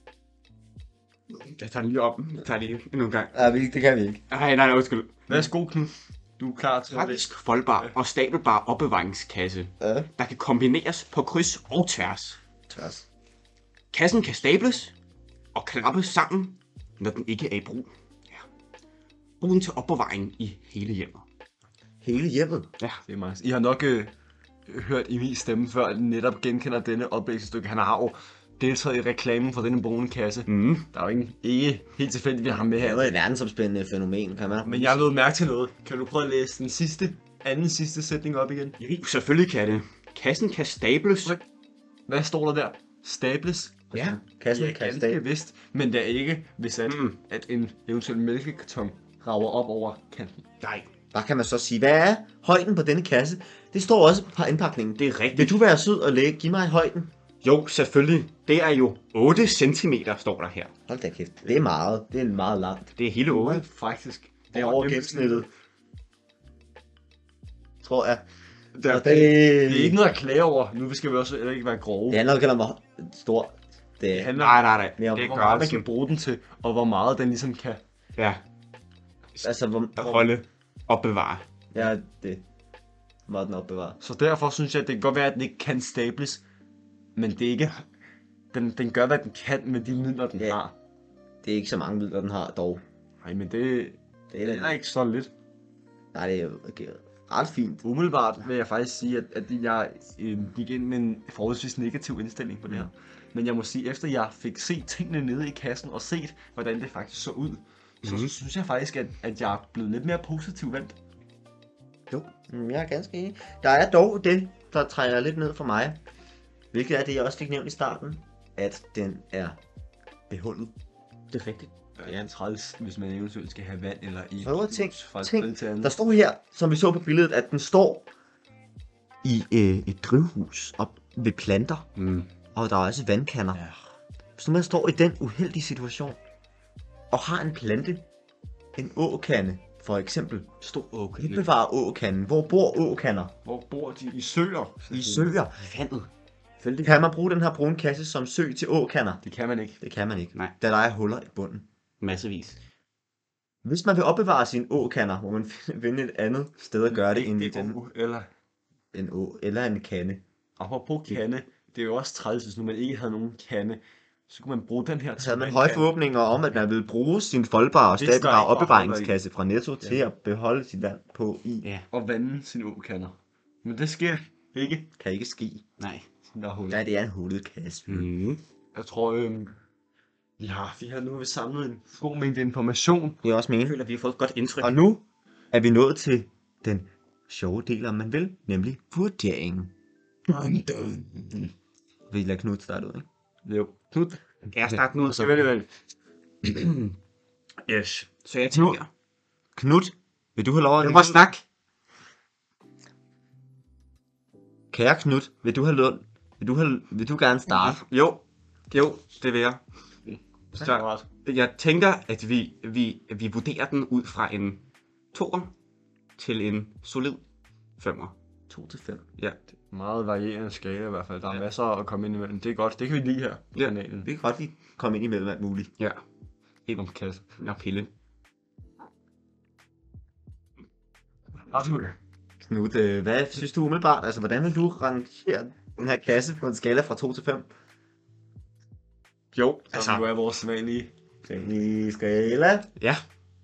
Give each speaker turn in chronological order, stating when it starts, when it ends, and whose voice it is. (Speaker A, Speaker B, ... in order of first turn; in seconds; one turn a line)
Speaker A: 1.3-3.5
Speaker B: 3.3-4.2
Speaker A: 4.3-5.5
Speaker C: 5.3-7.9
Speaker A: 6.9-12.4
Speaker B: 9.8-10.1
Speaker B: 12.7-13.0
Speaker A: 13.9-14.9
Speaker A: 15.5-18.4
Speaker A: 19.4-21.2
Speaker B: 22.0-22.7
Speaker C: 23.1-24.1
Speaker C: 24.7-33.2
Speaker A: 30.5-30.9
Speaker B: 32.7-35.1
Speaker C: 34.6-38.8
Speaker A: 38.8-41.4
Speaker C: 42.1-43.9
Speaker A: 43.9-44.2
Speaker B: 43.9-45.2
Speaker C: 44.5-50.4
Speaker A: 46.8-47.2
Speaker A: 50.6-50.9
Speaker B: 51.1-57.1
Speaker A: 55.0-55.6
Speaker A: 57.4-60.7
Speaker B: 60.9-62.9
Speaker A: 63.0-63.6
Speaker C: 63.3-65.5
Speaker B: 64.5-65.5
Speaker B: 67.8-68.2
Speaker A: 68.7-69.2
Speaker B: 68.8-70.0
Speaker C: 68.9-72.2
Speaker B: 72.1-74.3
Speaker C: 74.1-74.6
Speaker A: 74.4-75.9
Speaker B: 75.0-75.4
Speaker C: 75.2-77.8
Speaker A: 78.2-78.4
Speaker A: 79.3-81.4
Speaker B: 79.4-80.3
Speaker B: 81.7-82.4
Speaker B: 83.3-84.0
Speaker C: 84.0-86.4
Speaker C: 87.2-87.8
Speaker C: 88.5-90.8
Speaker B: 91.4-92.8
Speaker C: 93.2-95.3
Speaker B: 94.3-94.8
Speaker B: 96.1-97.8
Speaker C: 97.8-111.0
Speaker A: 108.0-108.3
Speaker B: 112.5-116.0
Speaker B: 116.7-119.6
Speaker B: 120.3-120.7
Speaker A: 121.3-122.3
Speaker C: 122.0-126.0
Speaker B: 124.4-128.1
Speaker B: 129.2-131.9
Speaker A: 131.9-132.3
Speaker B: 132.5-133.7
Speaker B: 134.4-136.2
Speaker B: 137.1-138.0
Speaker B: 138.7-140.5
Speaker A: 140.6-141.4
Speaker B: 141.2-143.3
Speaker C: 143.4-145.3
Speaker B: 144.9-145.6
Speaker A: 145.6-146.1
Speaker A: 146.6-147.0
Speaker B: 146.8-149.2
Speaker C: 149.2-149.8
Speaker B: 149.8-151.7
Speaker A: 152.0-152.6
Speaker B: 153.6-157.8
Speaker C: 156.9-158.3
Speaker B: 158.9-160.2
Speaker C: 160.6-165.9
Speaker B: 165.2-171.7
Speaker C: 167.9-169.2
Speaker C: 169.8-170.1
Speaker C: 171.9-174.9
Speaker B: 175.0-175.6
Speaker A: 175.8-176.1
Speaker C: 176.3-176.8
Speaker B: 176.7-178.1
Speaker A: 177.9-178.4
Speaker C: 178.7-179.6
Speaker C: 180.4-183.2
Speaker B: 183.2-183.8
Speaker A: 183.6-184.8
Speaker B: 184.6-189.7
Speaker C: 190.3-191.5
Speaker B: 192.1-193.1
Speaker C: 193.4-195.7
Speaker A: 194.5-195.4
Speaker A: 196.4-196.9
Speaker A: 197.6-198.9
Speaker B: 198.5-198.8
Speaker B: 199.6-201.2
Speaker A: 200.8-201.4
Speaker B: 204.7-207.8
Speaker A: 207.6-209.6
Speaker C: 210.1-211.1
Speaker A: 210.5-214.6
Speaker A: 215.1-215.5
Speaker A: 216.2-217.2
Speaker A: 217.8-218.1
Speaker B: 218.5-219.1
Speaker C: 219.7-224.1
Speaker B: 224.0-225.7
Speaker C: 226.7-227.2
Speaker A: 227.4-227.9
Speaker C: 231.5-231.9
Speaker B: 232.5-237.5
Speaker A: 239.3-240.1
Speaker C: 239.7-240.9
Speaker B: 241.2-242.7
Speaker A: 242.8-243.0